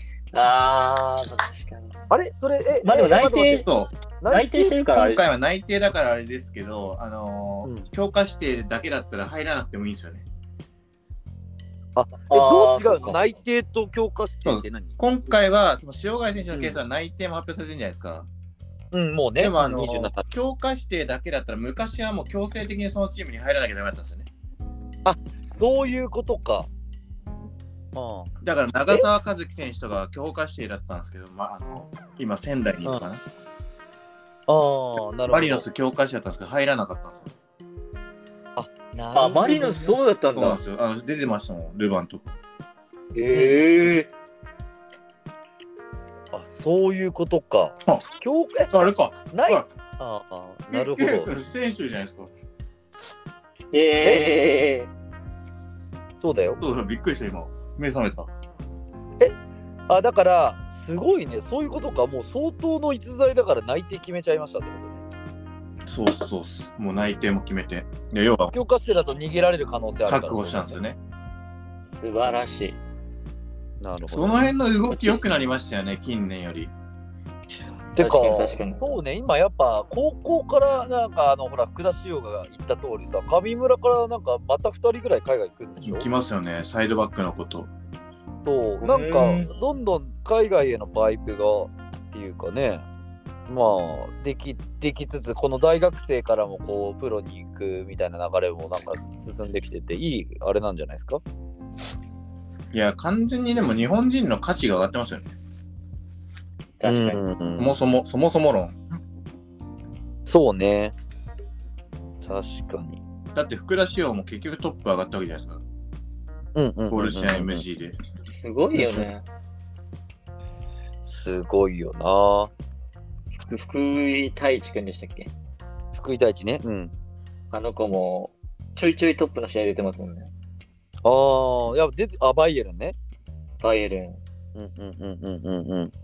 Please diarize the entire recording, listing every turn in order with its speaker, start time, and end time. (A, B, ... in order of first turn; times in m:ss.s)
0:00.3-0:02.0 A
0:02.1-0:03.7 B
0:02.8-0:03.7 A
0:03.6-0:03.9 C
0:04.2-0:04.8 B
0:04.3-0:05.2 A
0:04.9-0:10.2 C
0:12.0-0:15.0 B
0:12.3-0:13.3 A
0:14.4-0:18.3 C
0:16.5-0:16.8 B
0:18.9-0:20.3 B
0:19.4-0:24.3 C
0:25.0-0:26.7 B
0:28.0-0:28.3 B
0:28.4-0:33.2 C
0:34.5-0:35.7 B
0:35.3-0:37.3 C
0:38.6-0:40.0 B
0:39.2-0:40.6 A
0:40.4-0:42.4 C
0:43.2-0:44.1 A
0:43.3-0:43.6 B
0:46.3-0:48.7 B
0:48.7-0:49.6 C
0:49.3-0:51.3 B
0:50.7-0:52.3 C
0:53.7-0:54.9 A
0:54.0-0:54.3 B
0:56.2-0:56.6 B
0:56.6-0:58.3 C
0:59.9-1:05.0 B
1:05.9-1:08.5 C
1:08.5-1:10.8 B
1:10.1-1:11.0 C
1:11.9-1:12.8 A
1:13.8-1:14.5 B
1:14.1-1:16.7 C
1:14.9-1:15.2 A
1:18.0-1:26.1 B
1:18.0-1:18.9 A
1:25.8-1:27.7 C
1:28.4-1:32.8 B
1:28.8-1:29.5 A
1:33.5-1:41.2 B
1:42.7-1:45.3 C
1:46.8-1:47.2 A
1:46.9-1:47.8 B
1:47.6-1:48.8 C
1:50.3-1:51.0 B
1:52.2-1:53.0 B
1:53.3-1:55.6 C
1:56.6-1:57.6 B
1:56.9-1:58.0 C
1:58.3-1:59.2 A
2:01.0-2:02.5 B
2:03.4-2:05.3 A
2:05.9-2:06.9 B
2:07.5-2:10.3 A
2:11.0-2:13.0 B
2:13.6-2:14.2 A
2:14.6-2:15.9 B